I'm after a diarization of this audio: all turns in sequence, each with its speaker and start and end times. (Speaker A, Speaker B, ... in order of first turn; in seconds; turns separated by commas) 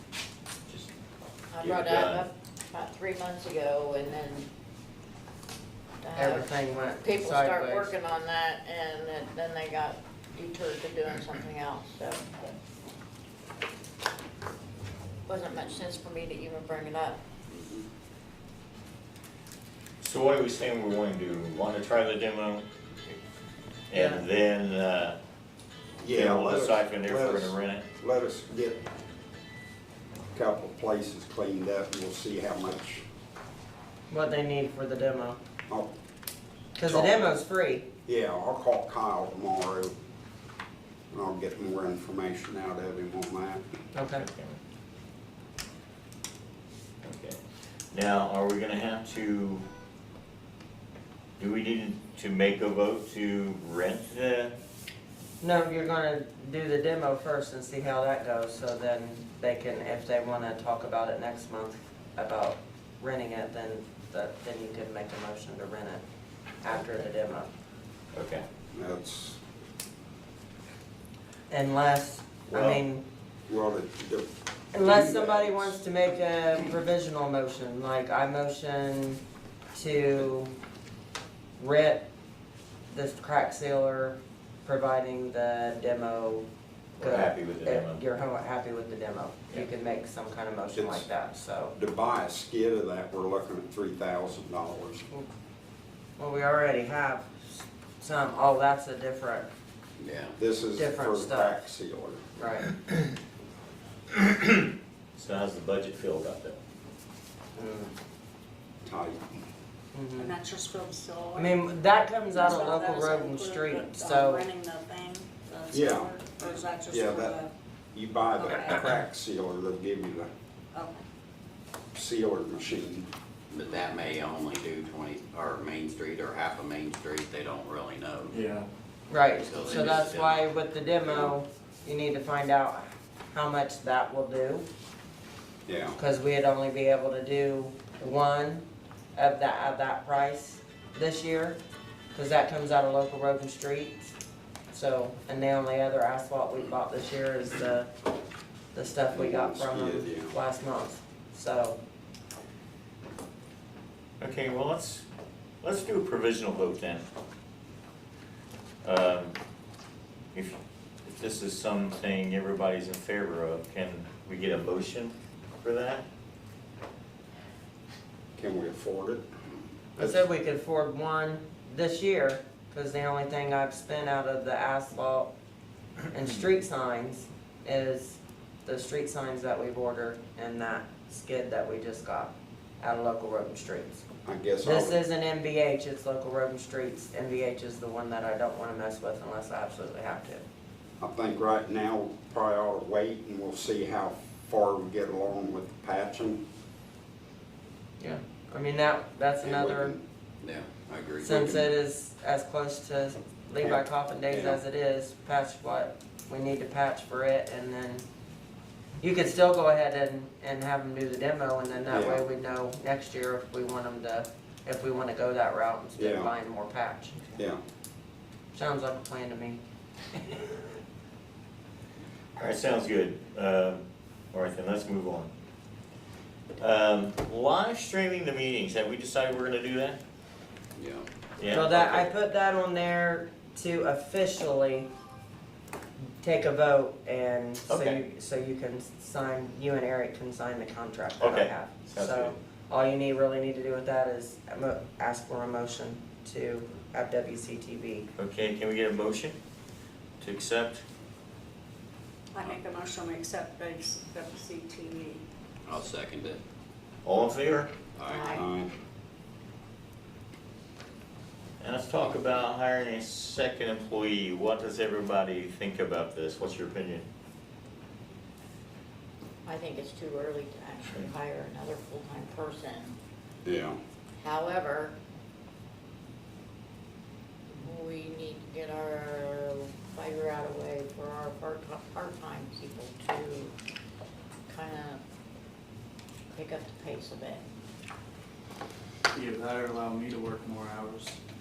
Speaker A: 1.5-4.5, Speaker B: 1.6-2.3, Speaker A: 6.0-6.5, Speaker C: 6.2-7.9, Speaker A: 7.0-12.5, Speaker A: 15.2-17.2, Speaker B: 20.0-22.7, Speaker B: 23.9-25.2, Speaker C: 23.9-24.2, Speaker D: 26.0-28.8, Speaker B: 26.1-27.8, Speaker D: 30.3-33.0, Speaker C: 34.1-35.4, Speaker C: 36.8-37.9, Speaker D: 36.8-37.3, Speaker D: 38.0-39.9, Speaker D: 41.1-43.6, Speaker C: 43.9-44.3, Speaker B: 44.1-44.6, Speaker B: 47.0-47.4, Speaker B: 47.9-49.7, Speaker B: 51.4-54.5, Speaker C: 55.4-66.0, Speaker C: 66.6-67.5, Speaker B: 68.1-68.4, Speaker D: 68.7-69.4, Speaker C: 71.5-73.0, Speaker D: 72.5-72.8, Speaker D: 73.5-75.8, Speaker C: 74.7-79.2, Speaker C: 79.8-80.5, Speaker C: 81.6-82.0, Speaker C: 82.9-86.5, Speaker C: 87.0-91.7, Speaker B: 87.0-88.0, Speaker D: 90.8-91.0, Speaker D: 91.8-95.0, Speaker C: 96.2-99.5, Speaker E: 100.0-100.3, Speaker D: 100.4-102.2, Speaker C: 100.8-101.6, Speaker C: 102.4-102.7, Speaker B: 104.2-104.5, Speaker B: 105.2-106.6, Speaker C: 107.6-107.9, Speaker D: 108.8-109.4, Speaker C: 109.9-110.3, Speaker F: 110.2-111.6, Speaker C: 111.3-114.5, Speaker F: 112.3-117.5, Speaker D: 115.7-117.4, Speaker D: 117.9-120.3, Speaker F: 118.4-119.0, Speaker D: 121.9-123.1, Speaker E: 123.5-128.3, Speaker G: 128.3-128.7, Speaker C: 129.1-134.7, Speaker E: 129.4-130.5, Speaker D: 135.7-136.0, Speaker C: 136.0-141.6, Speaker C: 142.1-144.1, Speaker C: 144.7-147.9, Speaker C: 148.7-151.8, Speaker D: 149.1-150.4, Speaker B: 154.2-155.0, Speaker B: 155.6-157.0, Speaker B: 158.8-159.3, Speaker B: 160.3-166.1, Speaker D: 168.4-169.2, Speaker C: 170.0-175.3, Speaker C: 176.1-184.0, Speaker D: 184.2-185.0, Speaker C: 184.6-190.4, Speaker D: 191.0-196.4, Speaker C: 198.0-200.0, Speaker D: 199.4-200.0, Speaker E: 200.4-201.7, Speaker C: 201.2-208.0, Speaker D: 203.6-204.6, Speaker C: 209.0-217.2, Speaker D: 211.9-212.2, Speaker D: 216.0-216.3, Speaker C: 218.5-219.6, Speaker C: 220.1-220.8, Speaker B: 222.4-225.3, Speaker B: 226.6-230.0, Speaker E: 230.8-231.1, Speaker B: 231.4-232.1, Speaker C: 231.5-234.9, Speaker C: 236.2-248.1, Speaker B: 237.7-238.0, Speaker B: 241.2-242.4, Speaker B: 248.2-249.4, Speaker B: 250.2-250.8, Speaker F: 252.3-255.2, Speaker E: 255.7-256.4, Speaker B: 257.0-257.7, Speaker E: 257.9-258.4, Speaker A: 258.1-258.4, Speaker D: 258.3-258.7, Speaker B: 261.6-267.1, Speaker E: 261.9-262.4, Speaker A: 269.4-272.9, Speaker D: 273.4-273.8, Speaker A: 274.2-274.9, Speaker A: 277.6-283.5, Speaker A: 284.5-285.0, Speaker A: 286.3-287.4, Speaker G: 289.1-291.2